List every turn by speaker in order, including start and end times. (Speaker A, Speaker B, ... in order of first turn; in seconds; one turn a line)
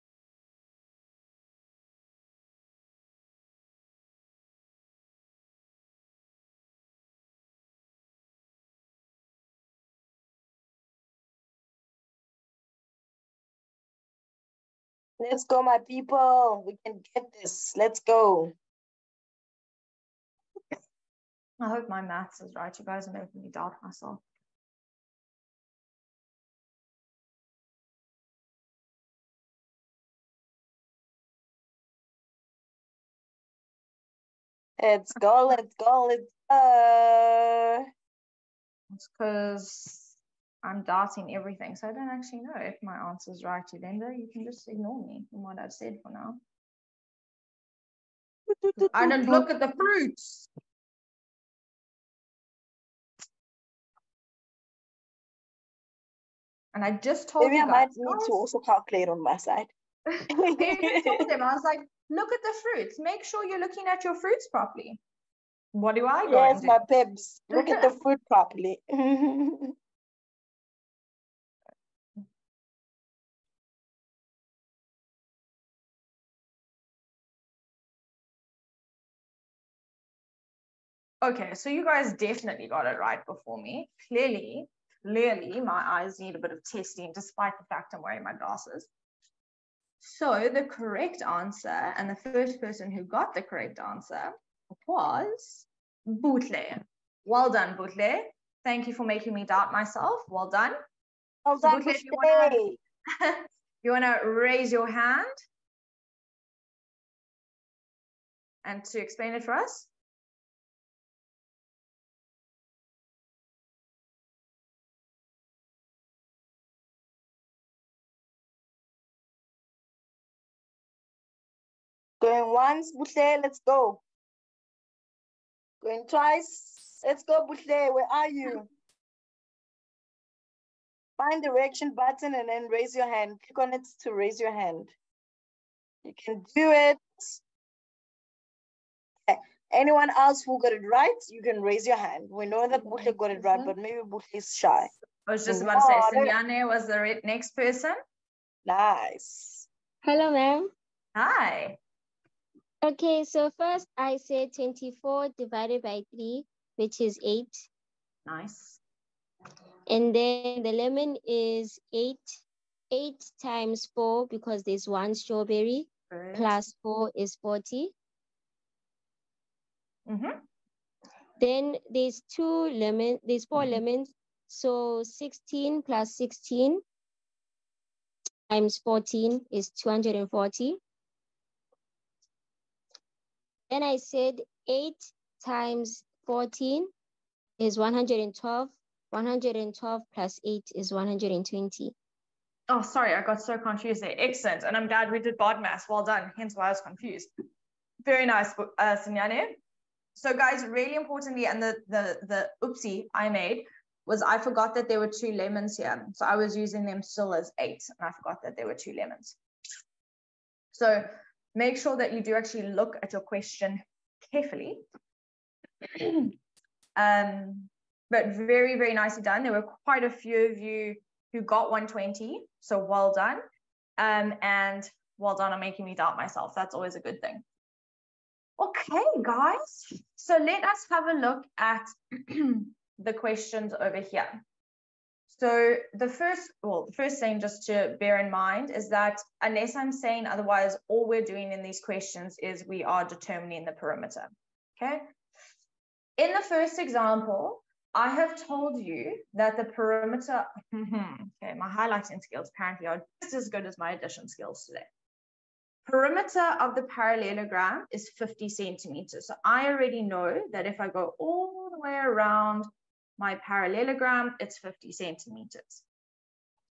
Speaker A: 15.2-18.5
Speaker B: 21.6-24.2
Speaker A: 34.8-37.8
Speaker B: 38.9-46.4
Speaker A: 48.6-49.5
Speaker B: 48.9-50.5
Speaker B: 56.7-58.4
Speaker A: 57.4-59.7
Speaker B: 60.1-65.0
Speaker A: 60.3-61.3
Speaker B: 65.7-66.8
Speaker A: 66.2-69.7
Speaker B: 67.5-67.9
Speaker B: 81.2-88.9
Speaker B: 90.0-100.8
Speaker A: 101.5-102.8
Speaker B: 101.6-102.6
Speaker B: 103.2-105.3
Speaker B: 108.6-109.9
Speaker A: 122.2-124.0
Speaker A: 125.8-128.7
Speaker A: 131.2-134.9
Speaker A: 136.0-137.4
Speaker A: 139.3-144.9
Speaker B: 142.9-143.7
Speaker B: 145.3-148.0
Speaker A: 145.5-146.3
Speaker A: 148.7-149.7
Speaker C: 150.0-150.7
Speaker B: 151.2-151.8
Speaker C: 152.8-157.7
Speaker B: 158.2-158.8
Speaker C: 159.9-167.9
Speaker B: 166.1-166.6
Speaker B: 170.1-170.4
Speaker C: 171.4-176.8
Speaker C: 178.5-180.8
Speaker C: 183.7-186.9
Speaker C: 187.6-191.9
Speaker B: 192.7-197.3
Speaker B: 198.1-199.6
Speaker B: 200.2-209.3
Speaker B: 210.7-214.8
Speaker B: 215.9-216.3
Speaker B: 216.9-223.4
Speaker B: 224.0-227.4
Speaker B: 228.6-234.4
Speaker B: 235.3-245.1
Speaker B: 246.2-254.9
Speaker B: 255.8-265.8